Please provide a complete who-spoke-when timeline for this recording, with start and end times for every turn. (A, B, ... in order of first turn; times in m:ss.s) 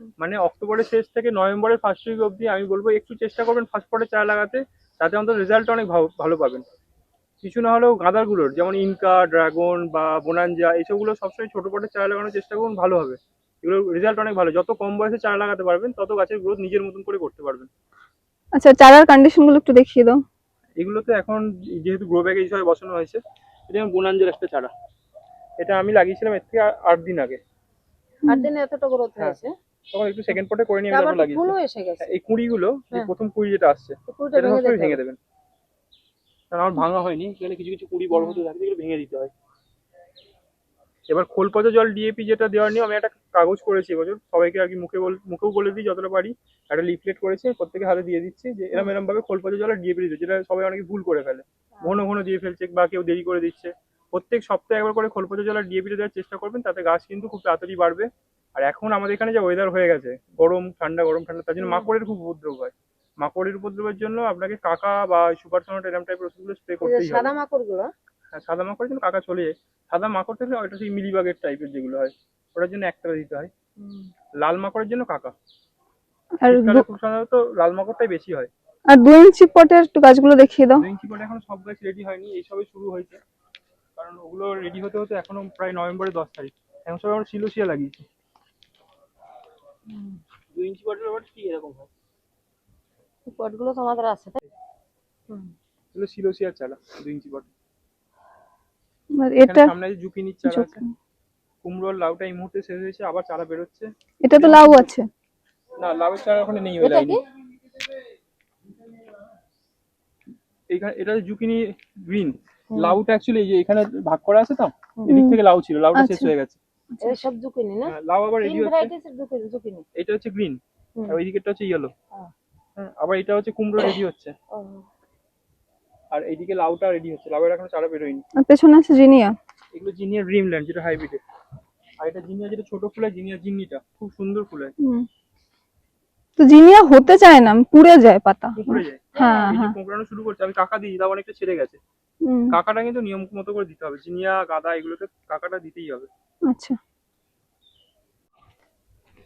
0:00.2-0:06.6 A
0:07.4-0:17.7 A
0:18.5-0:20.2 B
0:20.8-0:24.7 A
0:25.6-0:27.4 A
0:28.3-0:29.5 C
0:29.2-0:35.2 A
0:30.9-0:32.1 C
0:34.1-0:35.0 C
0:36.5-0:39.3 A
0:38.1-0:38.4 C
0:41.1-1:07.3 A
0:51.8-0:52.0 C
1:01.6-1:01.9 C
1:06.8-1:07.9 C
1:08.3-1:13.5 A
1:13.8-1:14.1 C
1:14.4-1:15.3 A
1:16.4-1:16.8 B
1:16.5-1:18.5 A
1:18.9-1:20.8 B
1:20.7-1:23.2 A
1:24.0-1:28.0 A
1:30.5-1:31.9 A
1:33.3-1:34.4 C
1:35.3-1:35.5 C
1:35.9-1:37.5 A
1:39.2-1:39.7 B
1:39.4-1:40.8 A
1:40.5-1:40.9 B
1:41.6-1:44.9 A
1:44.2-1:45.1 B
1:45.8-1:47.2 A
1:46.8-1:47.2 C
1:50.7-1:56.6 A
1:52.7-1:53.0 C
1:55.1-1:55.4 B
1:55.9-1:56.3 B
1:57.0-1:59.8 C
1:57.8-1:58.9 A
2:00.0-2:01.9 A
2:02.8-2:04.3 A
2:04.5-2:04.8 C
2:06.1-2:08.2 A
2:08.4-2:09.4 B
2:09.7-2:11.2 A
2:12.0-2:14.7 A
2:14.8-2:15.1 B
2:16.4-2:19.7 B
2:18.6-2:21.8 A
2:19.1-2:19.5 C
2:22.2-2:22.6 B
2:22.5-2:26.1 A
2:26.5-2:26.8 B